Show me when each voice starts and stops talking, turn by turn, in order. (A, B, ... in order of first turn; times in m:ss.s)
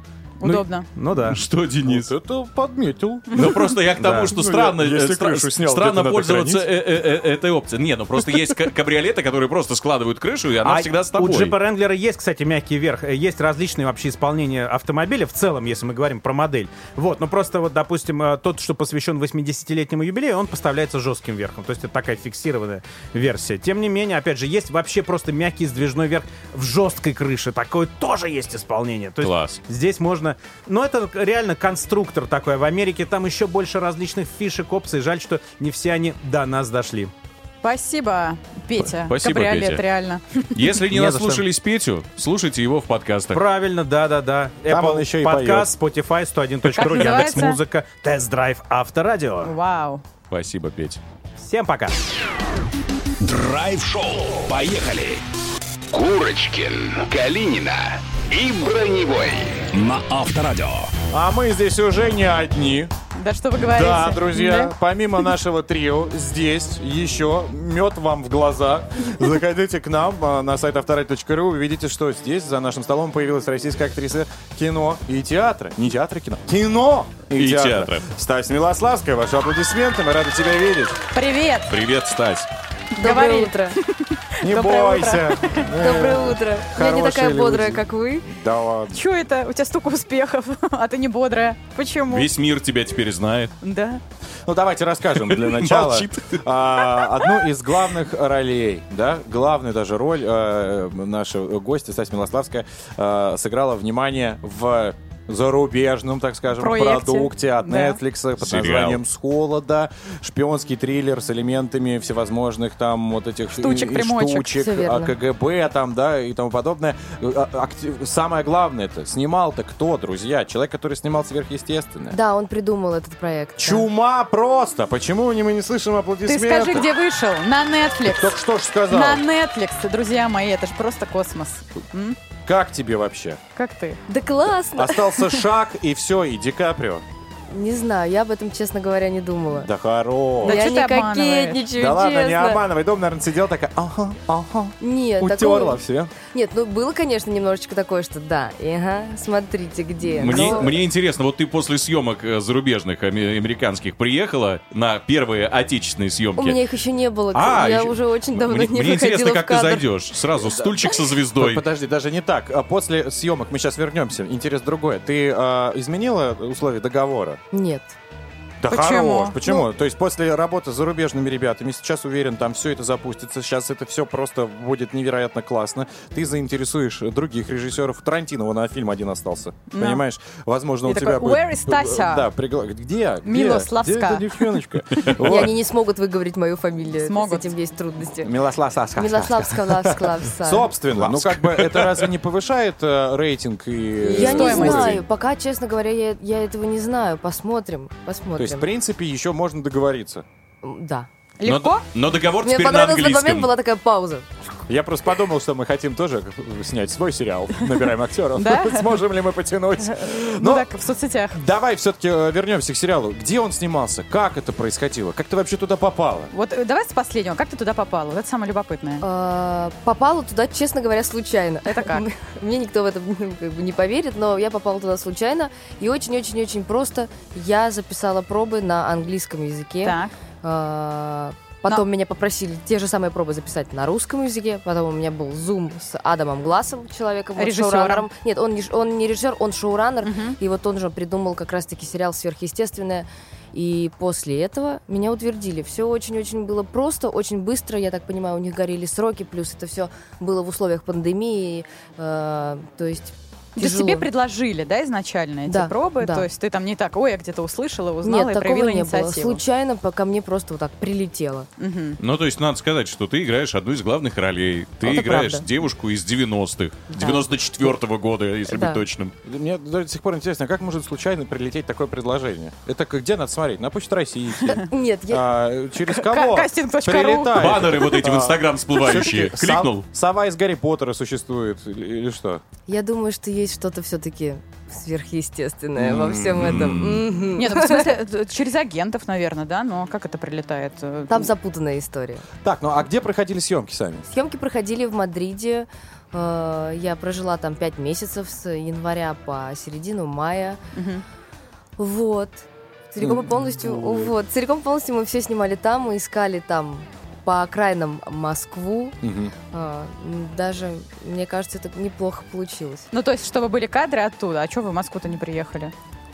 0:00.4-0:00.9 A
0:00.4-0:01.4 B
0:01.2-0:02.1 C
0:01.9-0:03.5 D
0:03.3-0:03.6 A
0:03.3-0:11.6 C
0:03.9-0:04.3 B
0:04.2-0:06.7 D
0:10.6-0:37.1 B
0:29.2-0:29.6 C
0:37.6-0:40.6 A
0:39.0-0:39.8 C
0:40.5-0:43.4 C
0:40.9-0:41.4 B
0:43.3-0:49.5 B
0:44.7-0:45.7 D
0:46.7-0:47.6 A
0:49.4-0:50.0 A
0:50.3-0:51.0 C
0:51.4-0:52.0 B
0:53.2-0:55.2 E
0:55.9-1:00.9 E
1:01.1-1:02.9 D
1:03.1-1:04.7 A
1:03.7-1:21.0 D
1:17.3-1:18.0 C
1:21.1-1:21.7 A
1:21.7-1:22.5 C
1:23.0-1:25.7 A
1:23.0-1:23.8 F
1:24.4-1:29.0 D
1:25.7-1:28.3 F
1:28.9-1:32.3 A
1:32.1-1:33.5 C
1:33.6-1:34.0 A
1:34.5-2:02.2 D
1:35.2-1:36.4 C
1:46.6-1:48.0 A
1:48.4-1:49.0 C
1:53.6-1:54.6 A
1:54.6-1:55.1 F
2:02.1-2:03.9 F
2:03.6-2:06.9 D
2:06.2-2:08.3 A
2:08.1-2:09.2 D
2:08.9-2:12.2 A
2:12.4-2:13.4 D
2:13.6-2:14.0 A
2:14.1-2:15.1 F
2:14.8-2:17.0 D
2:17.5-2:19.7 F
2:19.6-2:20.7 D
2:20.4-2:22.6 F
2:20.4-2:21.6 A
2:21.7-2:26.1 D
2:24.8-2:30.7 F
2:30.0-2:36.6 C
2:36.4-2:39.8 F
2:37.3-2:41.6 C
2:40.5-2:40.7 D
2:41.4-2:47.4 D
2:47.5-2:47.9 F
2:48.6-3:05.5 D
2:48.7-2:49.4 A
2:59.7-3:00.0 A
3:00.9-3:02.3 A
3:03.2-3:04.2 A
3:05.2-3:08.3 F
3:07.0-3:07.5 A
3:08.2-3:15.0 D
3:09.0-3:10.8 F
3:11.0-3:11.9 C
3:14.0-3:18.7 F
3:14.1-3:14.9 A
3:18.4-3:20.2 D
3:20.6-3:21.1 F
3:21.4-3:21.8 A
3:21.4-3:23.5 C
3:22.4-3:24.3 F
3:24.7-3:30.6 D
3:28.4-3:29.0 A
3:29.8-3:31.4 A
3:31.3-3:36.3 D
3:36.3-3:39.0 A
3:39.0-4:14.0 F
3:41.7-3:42.0 A
3:49.8-3:50.1 A
3:57.4-3:58.0 A
4:00.0-4:00.4 A
4:13.6-4:19.4 A
4:15.5-4:16.2 F
4:18.0-4:21.5 F
4:21.6-4:22.0 A
4:22.0-4:29.1 C
4:24.8-4:25.5 F
4:26.9-4:27.8 F
4:28.5-4:28.8 F
4:29.2-4:42.4 D
4:34.5-4:35.2 F
4:35.9-4:37.4 A
4:37.3-4:39.8 C
4:42.7-4:47.9 F
4:45.8-4:46.8 D
4:46.3-4:47.0 C
4:47.4-4:51.3 A
4:51.1-4:52.2 F
4:52.4-4:54.1 D
4:54.1-5:00.6 F
5:00.7-5:01.0 A
5:01.8-5:09.0 F
5:03.0-5:04.1 D
5:09.0-5:09.3 D
5:09.5-5:12.9 F
5:12.9-5:15.7 A